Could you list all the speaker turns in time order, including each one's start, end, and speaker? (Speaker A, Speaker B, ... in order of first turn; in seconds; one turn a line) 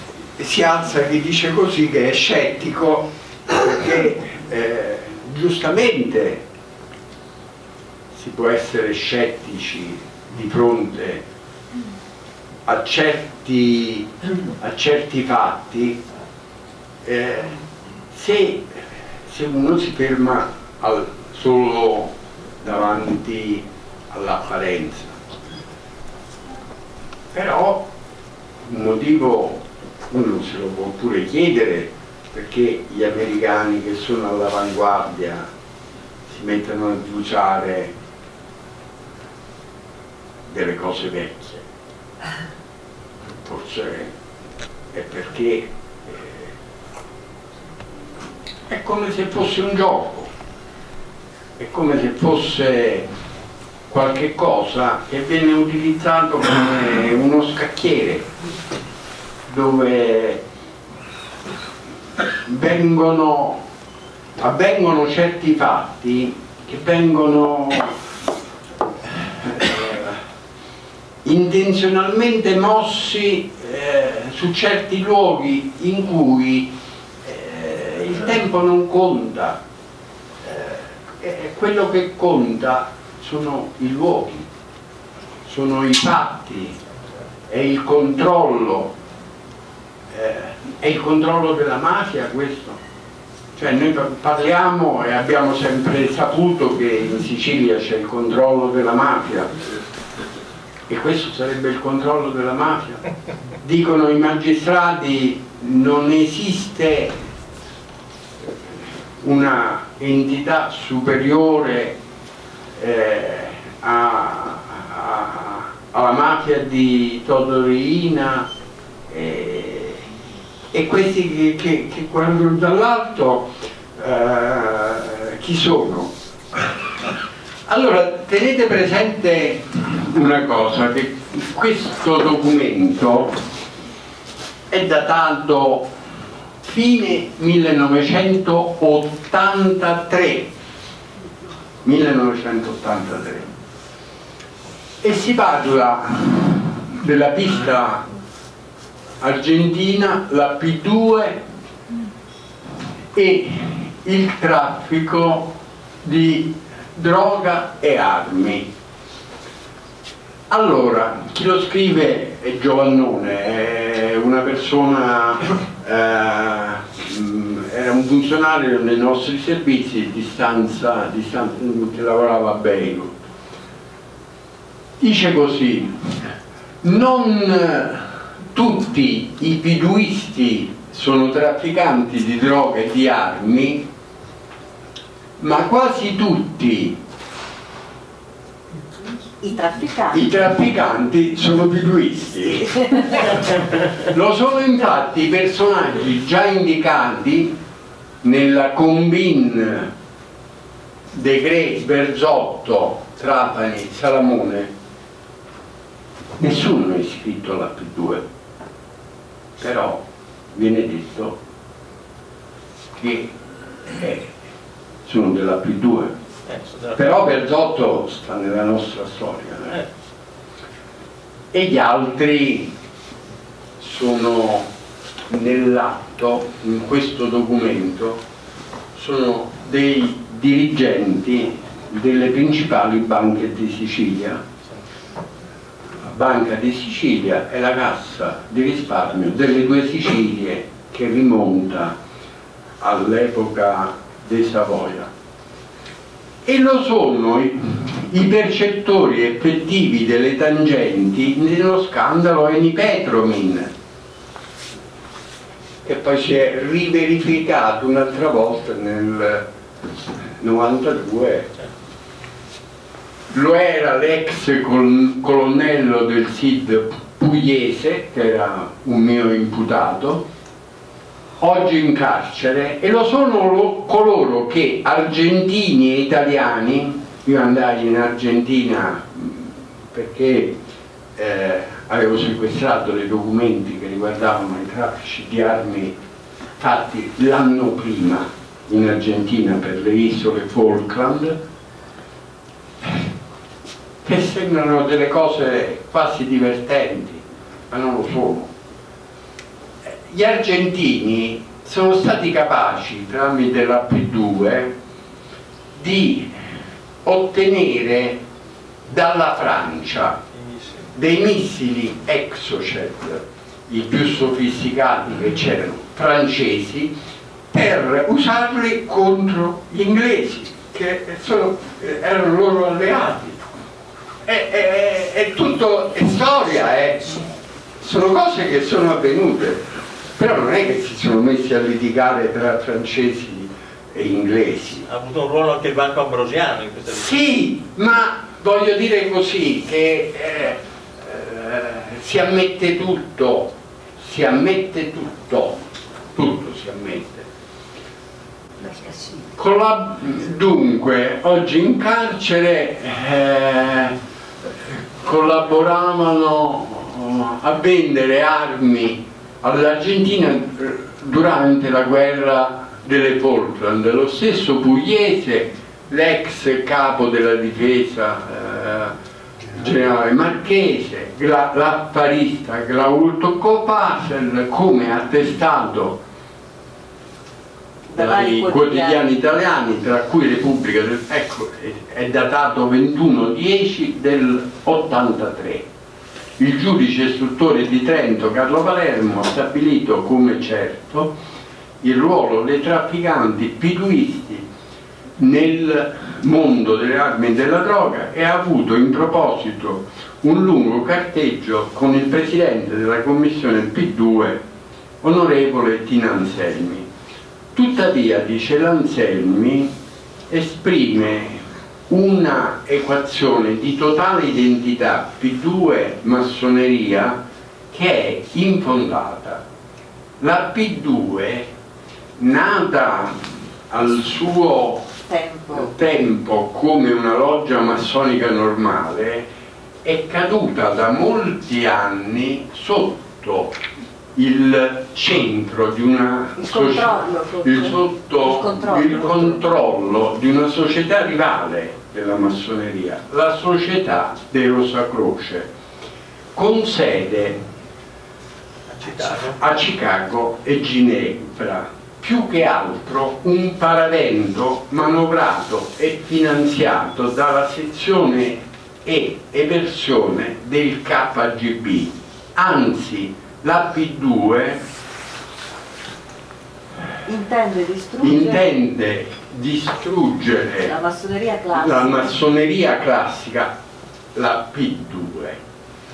Speaker A: 0.4-6.4
Speaker A: 8.1-11.2
Speaker A: 12.7-16.0
Speaker A: 17.0-17.6
Speaker A: 18.1-25.2
Speaker A: 27.3-27.9
Speaker A: 28.6-35.5
Speaker A: 36.3-37.9
Speaker A: 40.5-41.6
Speaker A: 43.4-44.1
Speaker A: 44.9-46.5
Speaker A: 48.7-50.3
Speaker A: 51.6-53.1
Speaker A: 53.9-58.3
Speaker A: 59.5-60.4
Speaker A: 62.4-63.6
Speaker A: 64.4-68.0
Speaker A: 69.1-70.2
Speaker A: 71.2-79.6
Speaker A: 80.4-84.5
Speaker A: 85.5-86.8
Speaker A: 87.5-88.9
Speaker A: 90.1-92.8
Speaker A: 93.5-99.6
Speaker A: 100.9-103.0
Speaker A: 103.6-107.1
Speaker A: 109.2-112.0
Speaker A: 112.8-118.5
Speaker A: 119.1-120.0
Speaker A: 120.7-126.6
Speaker A: 127.7-133.4
Speaker A: 134.7-135.9
Speaker A: 136.6-140.5
Speaker A: 141.8-143.5
Speaker A: 145.0-148.1
Speaker A: 149.2-151.4
Speaker A: 153.1-158.7
Speaker A: 160.5-173.2
Speaker A: 175.0-176.3
Speaker A: 176.8-183.9
Speaker A: 185.4-187.0
Speaker B: 189.4-190.3
Speaker A: 190.1-197.6
Speaker A: 198.2-199.9
Speaker A: 201.1-204.7
Speaker A: 206.4-208.2
Speaker A: 209.6-211.4
Speaker A: 212.9-213.3
Speaker A: 213.9-214.3
Speaker A: 215.0-216.1
Speaker C: 216.4-217.0
Speaker A: 216.9-219.8
Speaker A: 221.5-222.7
Speaker A: 223.8-224.7
Speaker A: 225.3-228.2
Speaker A: 228.9-234.4
Speaker A: 236.0-242.0
Speaker A: 242.8-245.1
Speaker A: 246.4-253.7
Speaker A: 255.8-259.4
Speaker A: 260.4-261.5
Speaker A: 263.3-270.3
Speaker A: 271.4-280.6
Speaker A: 281.1-285.9
Speaker A: 286.6-291.4
Speaker A: 294.0-298.5
Speaker A: 299.9-304.7
Speaker A: 305.7-306.4
Speaker A: 307.0-308.2
Speaker A: 308.9-310.2
Speaker C: 310.3-310.9
Speaker A: 310.9-316.9
Speaker A: 317.5-323.4
Speaker A: 324.2-327.2
Speaker A: 327.8-334.9
Speaker C: 334.9-337.1
Speaker A: 336.9-347.3
Speaker A: 349.2-353.9
Speaker A: 355.0-368.9
Speaker A: 369.5-376.0
Speaker B: 377.9-379.0
Speaker A: 377.9-385.6
Speaker A: 386.4-391.2
Speaker A: 391.8-394.5
Speaker A: 395.2-404.4
Speaker A: 405.0-406.9
Speaker A: 407.5-409.7
Speaker A: 410.3-419.4
Speaker A: 420.2-421.5
Speaker A: 422.2-424.9
Speaker B: 425.1-425.7
Speaker A: 425.5-429.3
Speaker A: 429.8-433.6
Speaker A: 434.1-445.5
Speaker B: 436.4-439.4
Speaker A: 446.3-447.4
Speaker C: 448.7-449.4
Speaker A: 449.2-464.6
Speaker B: 467.0-468.5
Speaker A: 468.0-470.7
Speaker B: 470.6-472.2
Speaker A: 471.5-473.5
Speaker A: 474.1-475.4